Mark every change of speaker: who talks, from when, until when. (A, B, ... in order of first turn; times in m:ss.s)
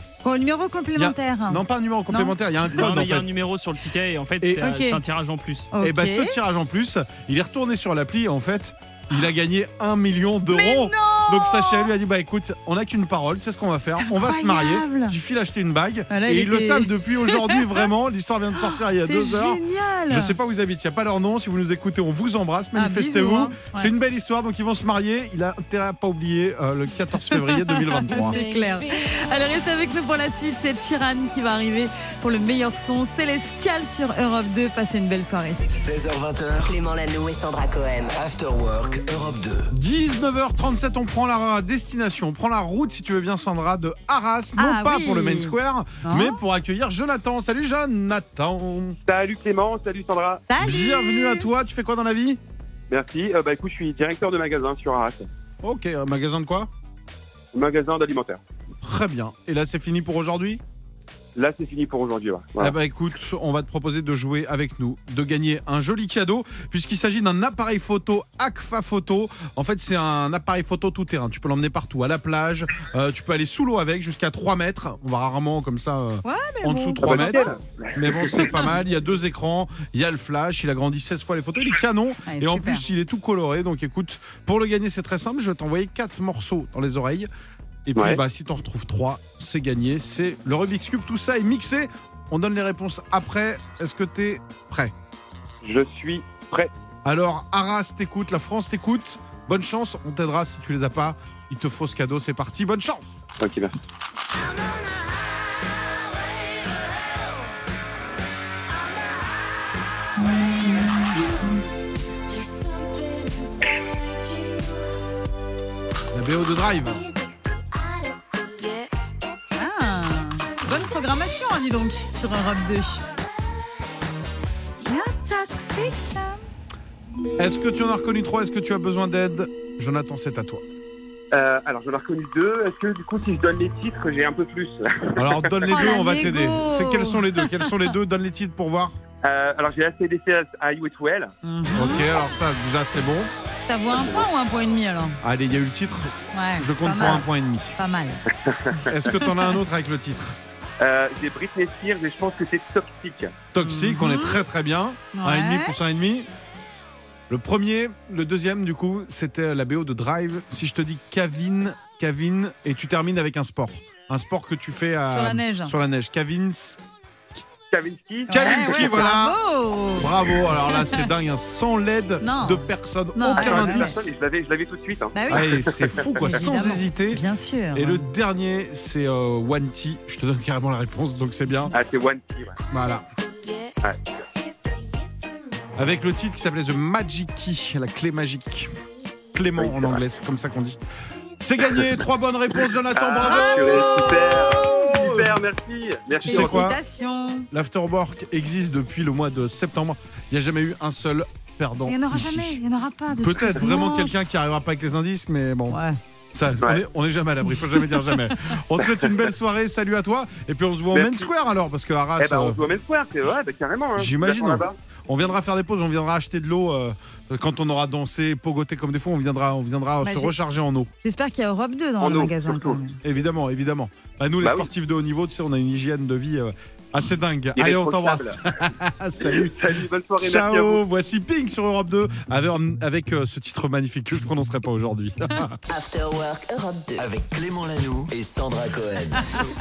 0:00.2-0:02.3 A
0:01.0-0:03.3 B
0:02.7-0:05.7 C
0:04.6-0:05.0 A
0:05.7-0:06.4 A
0:05.8-0:28.4 B
0:10.5-0:11.9 A
0:14.0-0:15.2 A
0:16.1-0:17.9 A
0:18.6-0:20.4 A
0:22.8-0:23.9 A
0:27.2-0:35.6 A
0:35.7-0:36.8 D
0:36.7-0:38.2 E
0:38.1-0:39.7 D
0:39.7-0:49.0 B
0:44.6-0:46.4 A
0:49.0-0:50.4 F
0:50.5-0:51.5 A
0:50.6-0:52.4 B
0:52.9-0:55.3 F
0:55.6-0:56.7 B
0:57.5-0:58.4 F
0:58.8-1:00.6 B
1:01.4-1:02.7 F
1:02.6-1:27.3 B
1:16.2-1:17.6 A
1:17.0-1:18.7 F
1:22.3-1:22.8 A
1:27.9-1:34.9 B
1:28.0-1:28.2 F
1:35.6-1:36.7 F
1:37.0-1:43.2 B
1:43.4-1:43.8 F
1:50.2-1:51.6 A
1:56.1-1:57.0 B
1:59.6-2:03.0 A
2:04.8-2:06.4 A
2:07.4-2:10.6 B
2:11.3-2:15.7 F
2:15.2-2:19.0 B
2:15.7-2:17.7 A
2:19.2-2:21.3 F
2:21.4-2:22.1 A
2:21.7-2:23.3 B
2:23.7-2:25.2 A
2:23.9-2:24.3 F
2:25.2-2:27.8 B
2:26.3-2:27.3 A
2:27.8-2:28.2 A
2:28.4-2:29.2 F
2:28.7-2:29.3 A
2:28.9-2:30.4 B
2:30.8-2:33.4 F
2:33.5-2:36.3 B
2:33.6-2:34.4 A
2:35.1-2:35.8 A
2:37.3-2:46.8 B
2:45.1-2:45.7 A
2:47.7-2:49.0 F
2:48.3-2:51.1 A
2:48.3-2:49.4 B
2:49.9-2:54.0 B
2:52.2-2:53.9 A
2:53.3-2:56.3 F
2:55.1-2:58.0 A
2:55.3-2:57.2 B
2:57.8-3:01.7 B
3:01.7-3:02.6 F
3:02.7-3:03.0 B
3:03.8-3:04.2 F
3:05.8-3:08.7 B
3:09.3-3:10.8 B
3:09.6-3:10.0 F
3:11.4-3:15.4 B
3:12.9-3:16.7 F
3:13.2-3:15.1 A
3:16.3-3:16.8 B
3:16.3-3:17.5 A
3:17.5-3:22.6 B
3:21.9-3:24.2 A
3:23.2-3:25.8 B
3:25.7-3:26.0 A
3:26.3-3:32.6 B
3:26.6-3:26.8 F
3:30.9-3:31.3 F
3:32.2-3:34.8 F
3:34.0-3:40.9 B
3:40.0-3:40.3 A
3:41.0-3:43.0 A
3:42.0-3:42.8 F
3:43.0-3:55.6 B
3:44.4-3:44.7 F
3:47.6-3:48.4 F
3:49.2-3:50.8 F
3:55.7-3:57.1 E
3:57.0-3:59.4 D